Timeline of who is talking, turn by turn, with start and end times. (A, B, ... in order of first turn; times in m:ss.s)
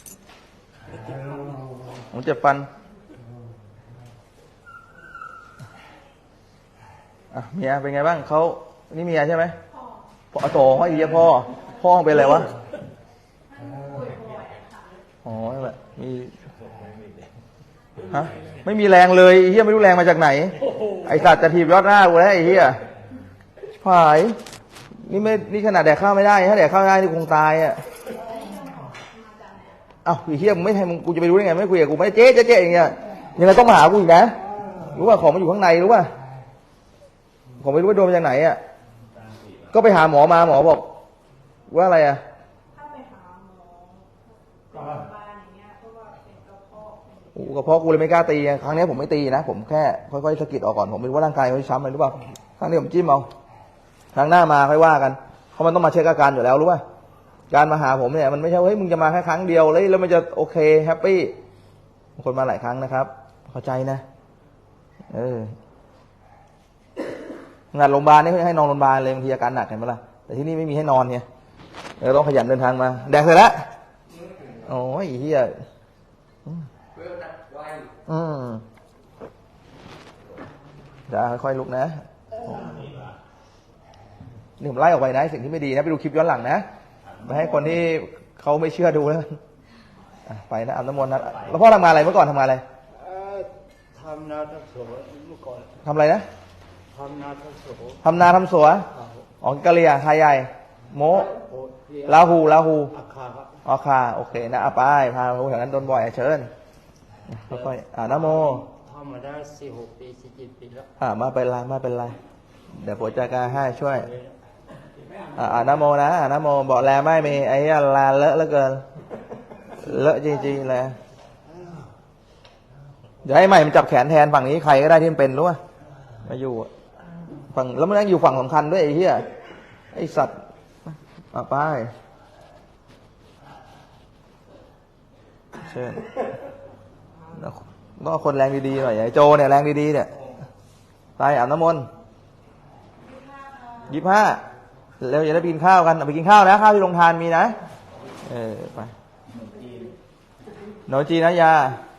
0:02.1-0:02.7 A
0:07.3-0:09.6 A
0:10.3-0:12.5 A
0:13.5-0:14.8 B
0:15.2-0:16.3 A
0:18.0-0:22.8 A
0:23.8-0:24.4 A
0:25.0-0:27.8 A
0:28.3-0:29.6 B
0:30.0-0:36.1 A
0:37.6-0:38.6 A
0:39.7-0:40.9 A
0:41.7-0:42.2 A
0:42.7-0:44.1 B
0:44.7-0:47.3 B
0:47.3-0:53.3 A
0:54.1-0:56.8 A
0:57.5-1:01.3 A
1:02.2-1:04.0 A
1:05.1-1:05.5 A
1:07.7-1:11.2 A
1:12.0-1:13.6 A
1:14.6-1:15.5 A
1:18.0-1:18.6 A
1:21.1-1:22.9 A
1:24.6-1:26.6 A
1:27.2-1:29.4 A
1:30.3-1:32.6 A
1:32.9-1:35.8 C
1:35.8-1:36.2 A
1:36.9-1:38.0 C
1:38.0-1:38.9 A
1:38.9-1:39.3 C
1:39.4-1:41.4 A
1:41.3-1:42.3 C
1:42.1-1:42.9 A
1:42.9-1:43.6 C
1:43.6-1:46.5 A
1:47.3-1:48.6 A
1:47.5-1:50.9 C
1:51.0-1:52.2 A
1:52.8-1:54.1 A
1:53.5-1:54.4 C
1:55.4-1:58.8 A
1:59.7-2:01.0 A
2:01.6-2:01.9 C
2:03.2-2:05.6 A
2:06.2-2:06.7 A
2:07.5-2:09.2 A
2:09.9-2:10.4 A
2:10.9-2:11.9 A
2:15.5-2:16.1 A
2:17.3-2:20.1 A
2:21.2-2:21.8 A
2:23.2-2:23.7 B
2:23.9-2:24.4 A
2:25.0-2:27.5 A
2:28.2-2:28.9 A
2:30.9-2:31.8 A